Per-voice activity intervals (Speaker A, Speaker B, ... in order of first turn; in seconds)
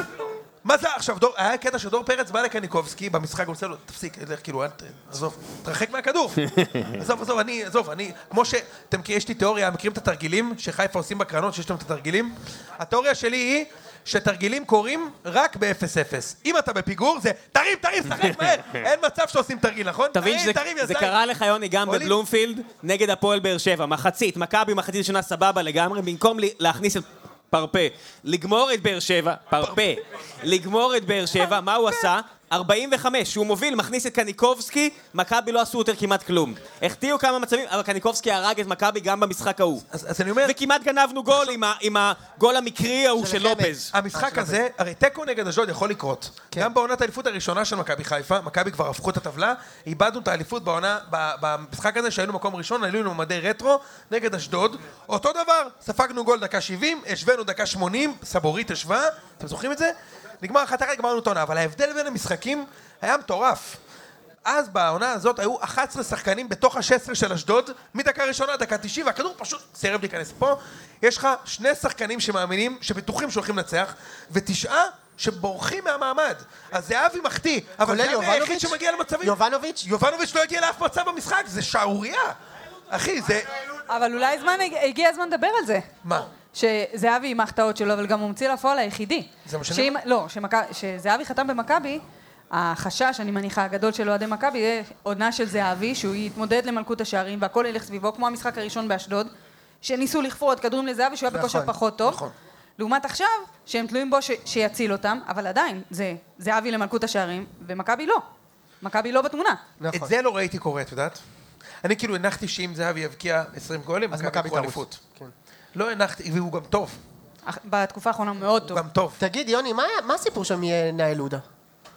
Speaker A: 0.6-21.2, 21.9-22.2, 39.9-40.6, 43.9-63.8, 64.5-82.3, 82.9-83.5, 86.0-86.3, 89.5-90.0, 102.0-102.3, 109.9-111.2, 111.8-115.0, 115.8-117.0, 118.7-119.2
Speaker B: 20.1-39.9, 40.4-43.9
Speaker C: 31.4-32.1, 83.9-85.9, 86.5-99.3, 99.8-102.2, 102.8-108.2, 108.8-109.6, 117.5-118.8
Speaker D: 43.1-44.6, 77.8-79.9, 101.3-101.7, 109.8-110.1, 114.1-115.3, 119.2-121.4